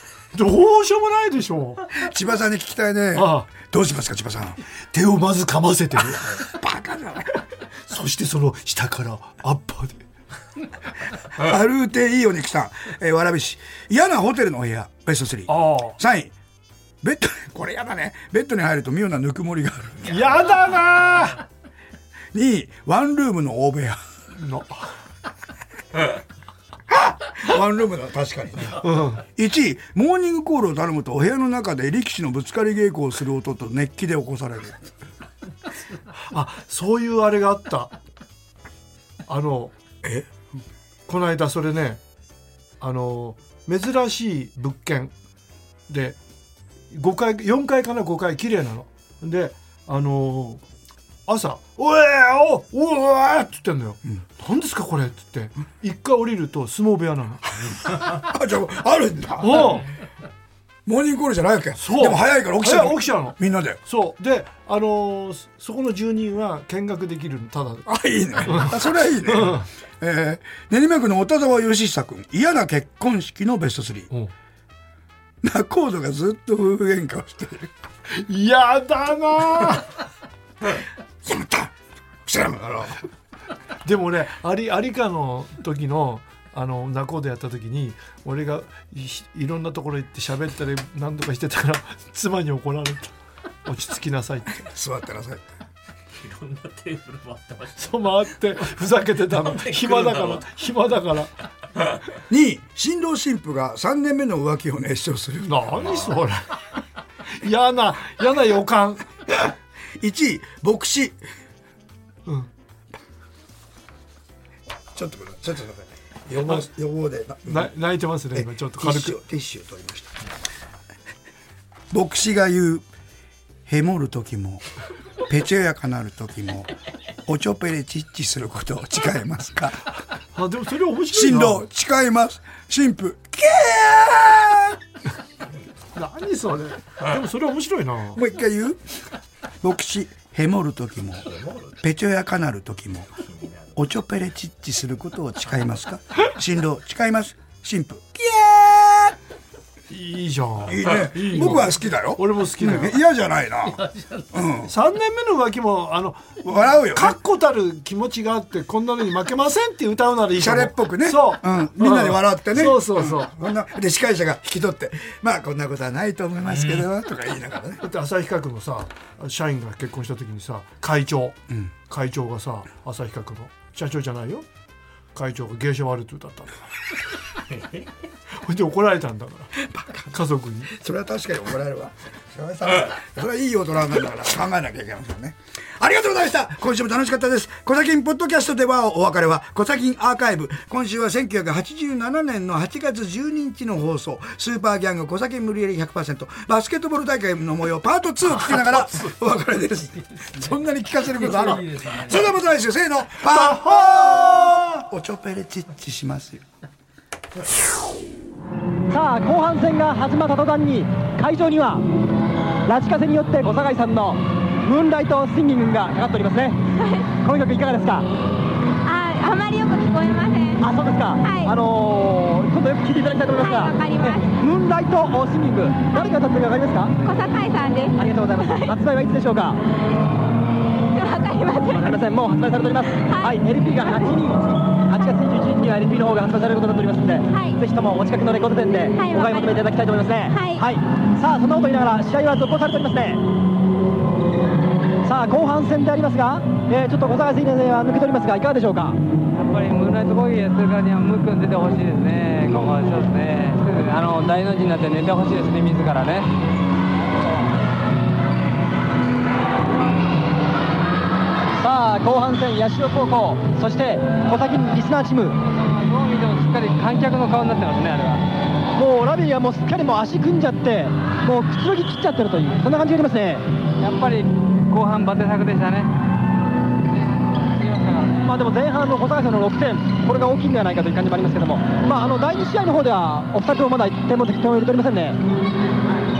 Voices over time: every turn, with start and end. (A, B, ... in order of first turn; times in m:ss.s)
0:00.3-0:01.9 A
0:01.9-0:04.6 B
0:03.1-0:03.5 A
0:04.9-0:06.4 A
0:06.3-0:07.4 B
0:07.9-0:10.0 A
0:11.4-0:16.3 B
0:15.5-0:16.0 A
0:17.0-0:20.3 B
0:20.0-0:21.4 A
0:22.3-0:24.0 B
0:24.4-0:24.9 A
0:26.9-0:34.8 B
0:28.8-0:29.2 A
0:36.3-0:38.0 A
0:39.3-0:39.7 A
0:40.0-0:40.3 B
0:41.1-0:42.0 A
0:42.8-0:45.1 A
0:45.9-0:46.2 A
0:46.9-0:50.6 A
0:51.3-0:57.7 A
0:57.7-0:59.8 B
0:59.4-0:59.9 A
1:00.9-1:03.8 B
1:01.8-1:09.7 A
1:07.9-1:14.1 B
1:15.4-1:17.7 B
1:18.1-1:19.9 A
1:21.2-1:21.7 B
1:22.2-1:23.0 B
1:23.8-1:34.6 A
1:34.5-1:35.4 B
1:36.2-1:37.8 C
1:37.8-1:41.3 A
1:39.6-1:40.4 C
1:42.3-1:46.1 B
1:45.4-1:46.7 A
1:47.3-1:49.1 A
1:50.0-1:51.2 B
1:54.9-1:57.7 B
1:57.4-1:59.2 A
1:58.3-2:00.1 B
2:01.9-2:02.8 B
2:03.7-2:04.6 B
2:05.2-2:06.7 B
2:07.2-2:09.9 B
2:10.3-2:11.6 A
2:11.1-2:14.8 B
2:15.9-2:18.2 A
2:18.1-2:18.8 B
2:19.6-2:23.2 B
2:23.7-2:29.2 B
2:29.9-2:33.0 A
2:30.7-2:33.8 B
2:33.7-2:34.3 C
2:34.3-2:34.7 B
2:34.7-2:43.3 A
2:36.4-2:37.2 B
2:40.3-2:47.8 B
2:47.8-2:51.4 A
2:51.9-2:54.4 A
2:55.1-2:56.8 A
2:58.4-2:59.6 A
2:59.7-3:00.1 B
3:00.1-3:00.7 A
3:00.7-3:26.4 B
3:20.2-3:22.3 C
3:23.3-3:24.8 A
3:28.9-3:31.9 D
3:32.7-3:36.6 D
3:36.8-3:37.1 E
3:37.2-3:38.1 D
3:38.8-3:40.7 E
3:40.6-3:46.9 D
3:41.2-3:41.6 E
3:43.3-3:44.4 E
3:47.0-3:48.8 E
3:48.0-3:49.6 D
3:50.9-3:52.0 E
3:51.7-4:03.2 D
3:53.0-3:53.4 E
3:57.3-3:57.6 E
3:58.9-3:59.7 E
4:00.3-4:00.6 E
4:05.0-4:09.0 D
4:09.3-4:16.3 F
4:21.6-4:25.4 D
4:25.6-4:28.2 F
4:28.7-4:33.5 D
4:33.8-4:35.9 F
4:37.4-4:38.3 F
4:38.2-4:45.2 D